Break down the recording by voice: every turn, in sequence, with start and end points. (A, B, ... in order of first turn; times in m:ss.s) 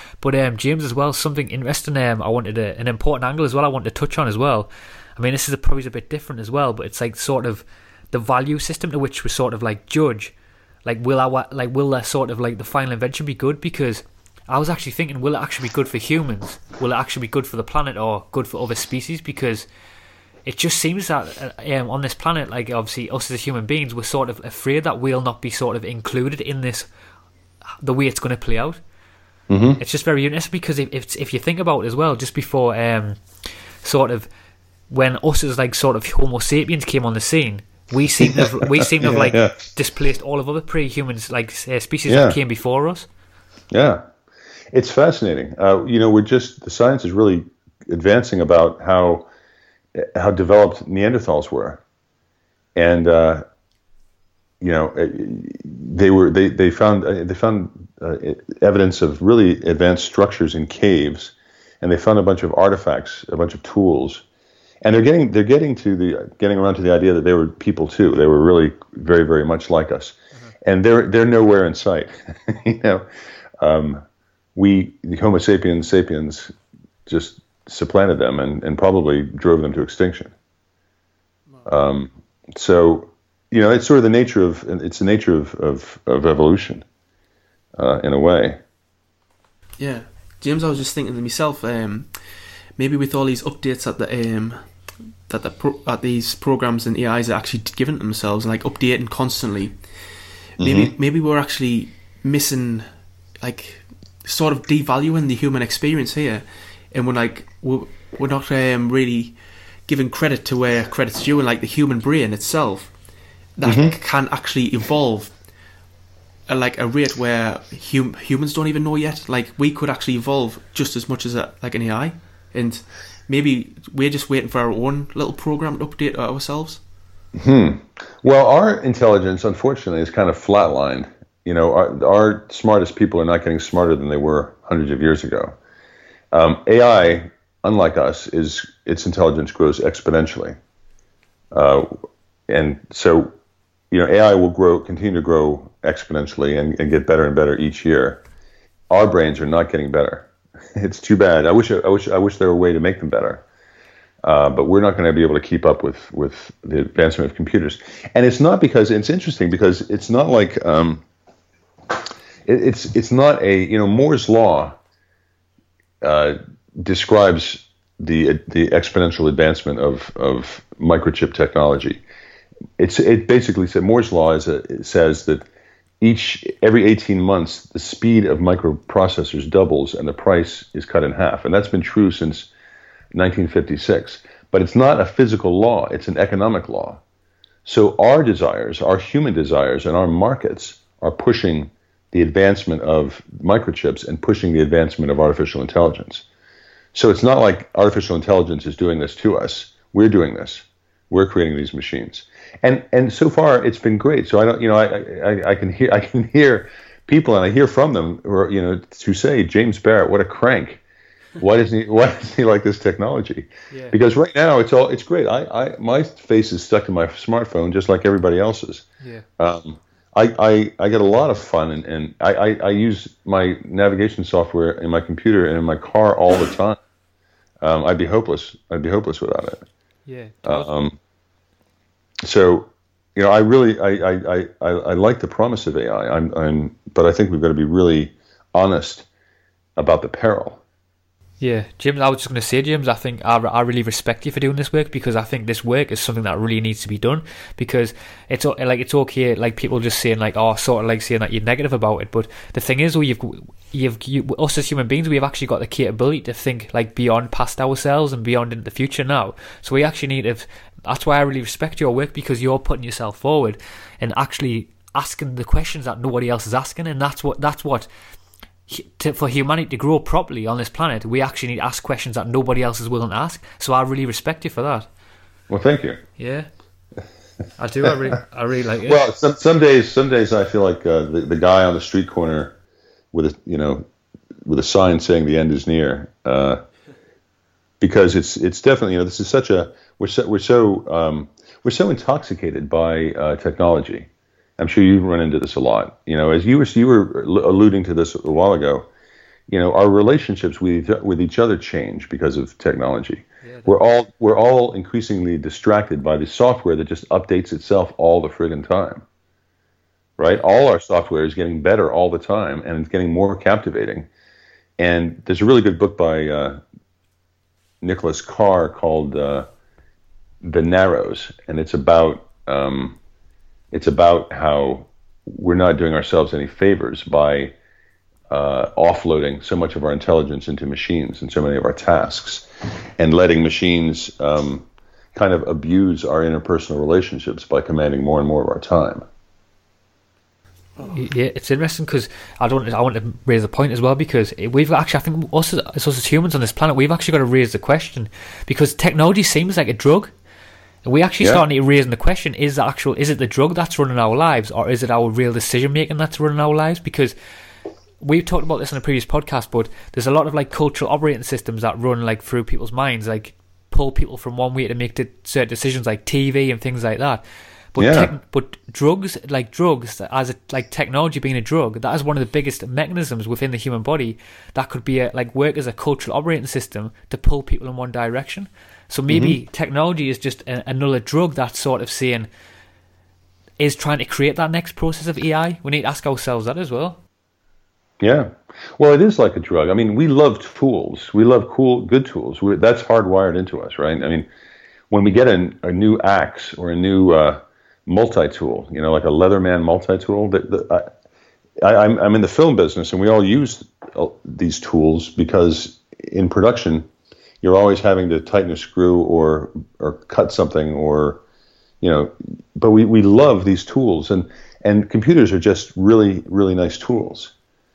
0:00.2-0:10.3 A
0:10.8-0:19.6 A
0:20.4-0:26.9 A
0:27.8-0:28.8 A
0:29.5-0:29.8 B
0:29.8-0:33.2 A
0:33.8-0:34.3 A
0:34.9-0:43.1 A
0:38.2-0:39.5 B
0:42.1-0:42.4 B
0:43.7-0:44.0 B
0:44.7-0:49.3 B
0:49.9-0:51.8 B
0:52.7-0:53.4 B
0:54.6-1:04.2 B
1:04.8-1:13.0 B
1:13.6-1:14.0 B
1:14.5-1:16.5 B
1:17.0-1:20.3 B
1:21.6-1:26.8 B
1:27.8-1:28.6 B
1:29.8-1:32.1 C
1:32.8-1:34.6 C
1:35.3-1:39.7 C
1:40.6-1:40.9 B
1:40.6-1:42.9 C
1:43.4-1:49.3 C
1:49.9-1:52.9 C
1:53.6-1:55.3 C
1:53.6-1:54.0 B
1:56.5-2:06.8 C
2:07.3-2:15.6 B
2:16.3-2:20.6 B
2:21.5-2:21.9 B
2:22.5-2:23.3 B
2:23.9-2:28.2 B
2:28.9-2:33.4 B
2:34.2-2:41.0 B
2:41.9-2:44.8 B
2:46.0-2:52.0 B
2:52.8-2:55.4 B
2:56.0-3:02.5 B
3:03.1-3:07.0 B
3:07.6-3:16.2 B
3:16.9-3:30.8 B
3:31.4-3:38.8 B
3:33.7-3:34.0 A
3:39.4-3:46.8 B
3:47.6-3:49.6 B
3:50.0-3:50.7 A
3:50.4-3:51.0 B
3:52.2-3:59.0 B
3:59.8-4:00.6 B
4:01.4-4:27.9 A
4:28.7-4:34.9 A
4:35.5-4:36.0 B
4:36.2-4:36.5 A
4:37.6-4:39.0 A
4:38.8-4:42.5 B
4:43.1-4:43.8 B
4:44.4-4:46.6 B
4:47.8-4:58.9 B
4:59.5-5:09.0 B
5:03.4-5:03.8 A
5:10.2-5:14.1 B
5:14.8-5:16.6 B
5:17.8-5:19.5 B
5:20.4-5:23.0 B
5:23.7-5:27.5 B
5:28.3-5:39.0 B
5:40.8-5:50.1 A
5:50.8-5:57.1 A
5:58.0-6:07.2 A
6:07.7-6:22.3 A
6:07.8-6:08.1 B
6:19.1-6:19.4 B
6:23.6-6:27.0 A
6:28.0-6:34.3 B
6:34.9-6:40.9 B
6:41.6-6:46.9 B
6:47.4-6:51.2 B
6:51.8-6:57.3 B